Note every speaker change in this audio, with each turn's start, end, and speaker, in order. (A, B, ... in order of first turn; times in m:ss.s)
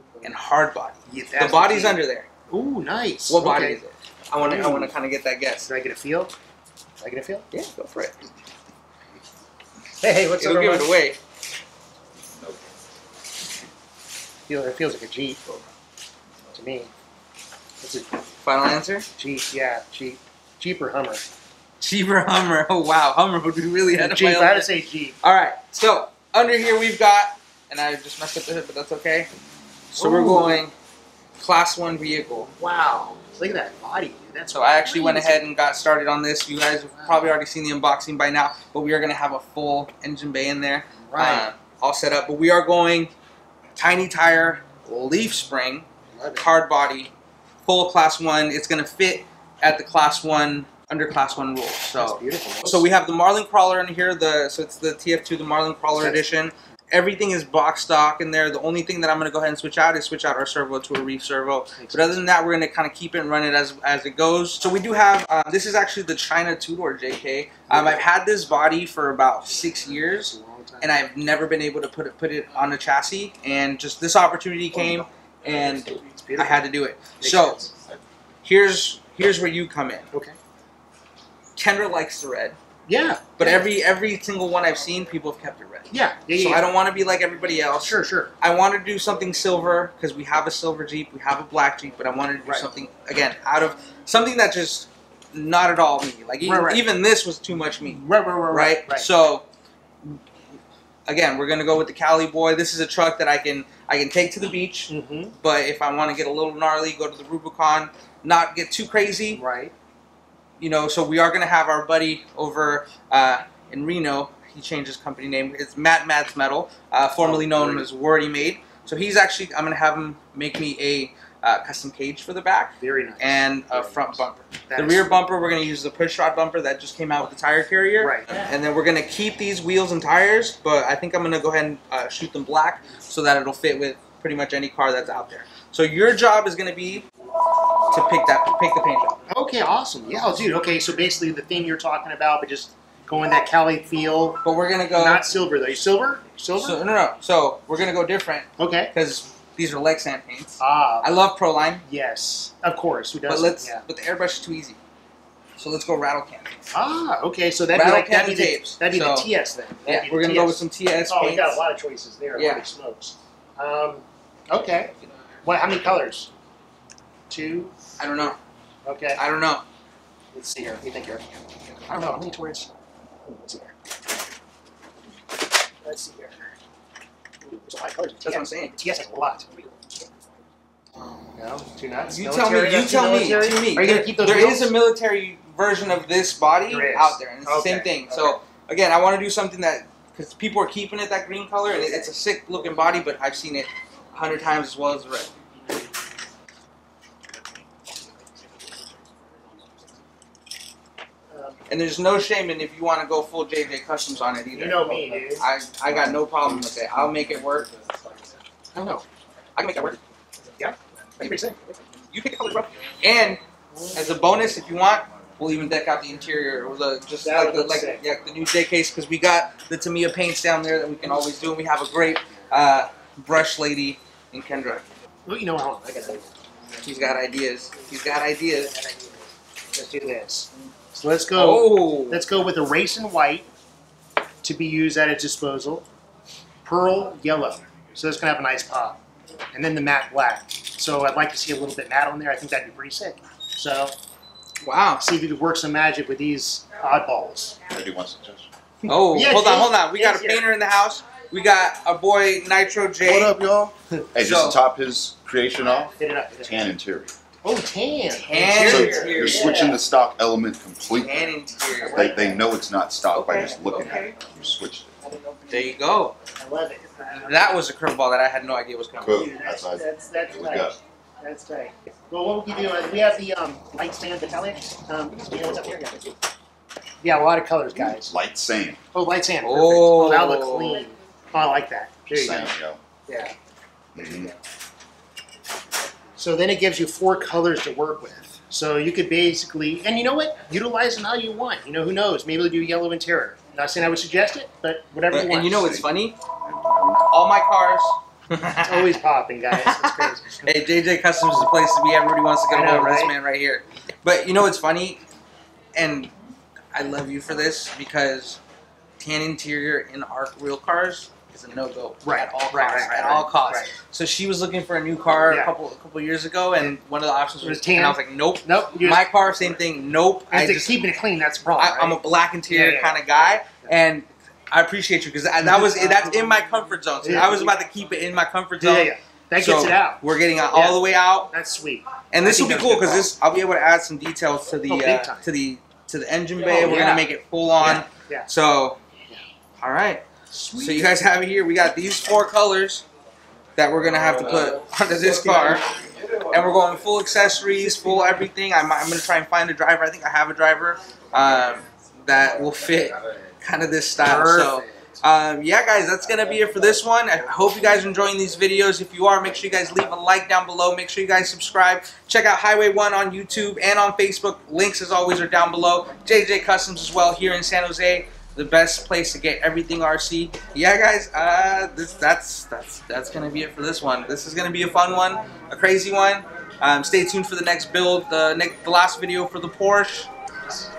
0:00.2-0:02.3 A
0:01.1-0:03.8 B
0:03.3-0:05.7 A
0:04.4-0:04.9 B
0:05.7-0:06.3 B
0:07.0-0:07.4 B
0:07.5-0:08.1 A
0:10.0-0:10.9 B
0:10.4-0:11.2 A
0:14.5-0:15.4 B
0:16.5-0:16.9 B
0:17.8-0:18.1 B
0:18.4-0:19.1 A
0:19.2-0:21.2 B
0:21.8-0:24.7 A
0:23.9-0:25.2 B
0:25.2-0:29.3 A
0:29.9-0:30.7 A
0:30.0-0:30.6 B
0:31.4-0:32.5 A
0:32.6-0:35.5 B
0:34.5-0:43.1 A
0:37.0-0:37.3 B
0:41.0-0:41.5 B
0:43.8-0:47.1 A
0:46.1-0:46.5 B
0:47.6-1:17.6 A
0:52.0-0:52.9 B
0:56.0-0:56.2 B
1:01.8-1:02.2 B
1:07.7-1:08.0 B
1:10.2-1:11.0 B
1:15.9-1:16.7 B
1:17.2-1:17.7 B
1:18.4-1:20.1 A
1:20.1-1:20.4 B
1:21.6-1:22.6 A
1:22.9-1:23.6 B
1:23.4-1:39.4 A
1:25.9-1:26.7 B
1:27.8-1:28.3 B
1:32.4-1:32.7 B
1:36.4-1:36.8 B
1:37.8-1:39.1 B
1:41.1-1:49.4 A
1:44.9-1:45.3 B
1:49.3-1:49.7 B
1:50.6-2:17.1 A
1:57.2-1:57.9 B
2:02.8-2:05.2 B
2:08.0-2:08.6 B
2:17.9-2:19.2 A
2:19.3-2:24.4 B
2:24.4-2:25.2 A
2:24.9-2:26.8 B
2:26.6-2:31.8 A
2:28.6-2:28.9 B
2:30.6-2:31.1 B
2:31.8-2:33.8 B
2:33.2-2:34.8 A
2:35.6-2:36.5 A
2:36.7-2:44.9 B
2:37.7-2:39.3 A
2:39.8-2:41.6 A
2:42.3-2:42.7 A
2:45.4-2:46.3 B
2:47.3-2:47.7 B
2:48.0-2:48.4 A
2:48.8-2:49.2 B
2:49.2-2:49.6 A
2:50.3-2:51.2 B
2:51.9-2:52.7 B
2:53.2-2:53.7 B
2:55.8-2:56.5 B
2:57.4-2:59.6 B
2:58.2-2:58.8 A
3:01.0-3:04.8 B
3:02.1-3:15.3 A
3:06.7-3:08.4 B
3:21.3-3:21.6 B
3:21.7-3:27.7 A
3:24.5-3:25.4 B
3:28.7-3:29.1 B
3:29.6-3:30.0 A
3:30.6-3:31.8 B
3:32.1-3:33.4 A
3:33.7-3:34.0 B
3:33.9-3:44.8 A
3:37.2-3:38.0 B
3:45.2-3:46.3 B
3:46.8-3:48.7 A
3:49.7-3:53.5 B
3:51.3-3:52.2 A
3:54.4-3:55.8 B
3:56.6-3:59.0 B
3:59.5-4:03.9 B
4:04.6-4:05.0 A
4:05.0-4:07.6 B
4:07.7-4:08.5 C
4:08.8-4:10.5 B
4:08.9-4:13.4 A
4:13.0-4:17.1 C
4:14.2-4:14.6 A
4:16.0-4:16.7 B
4:17.4-4:19.8 B
4:18.1-4:19.8 A
4:18.5-4:21.4 C
4:21.0-4:22.3 A
4:21.8-4:22.4 B
4:21.9-4:24.9 C
4:23.1-4:24.2 A
4:25.5-4:26.2 A
4:26.4-4:27.5 B
4:27.2-4:29.3 A
4:29.0-4:30.7 C
4:29.1-4:36.1 B
4:37.0-4:38.1 B
4:37.8-4:38.8 C
4:38.9-4:43.3 B
4:39.4-4:40.9 A
4:42.1-4:42.8 C
4:43.9-4:44.3 C
4:44.0-4:44.3 B
4:46.2-4:55.7 B
4:55.1-4:56.2 A
4:55.6-4:55.9 C
4:56.4-4:57.1 C
4:57.1-4:59.0 A
4:58.6-5:00.6 B
4:59.5-5:05.0 A
5:02.5-5:03.2 B
5:05.7-5:06.1 A
5:06.7-5:08.4 A
5:09.0-5:20.8 A
5:12.0-5:13.7 B
5:15.3-5:15.6 B
5:17.4-5:19.1 B
5:20.3-5:23.8 B
5:21.6-5:31.3 A
5:25.4-5:26.1 B
5:27.0-5:27.6 B
5:28.6-5:33.1 B
5:32.1-5:38.8 A
5:34.7-5:35.3 B
5:36.4-5:38.3 B
5:39.6-5:40.0 A
5:40.3-5:41.0 B
5:40.5-5:42.8 A
5:43.6-5:45.6 A
5:45.2-5:45.5 B
5:46.3-6:20.1 A
5:54.0-5:55.0 B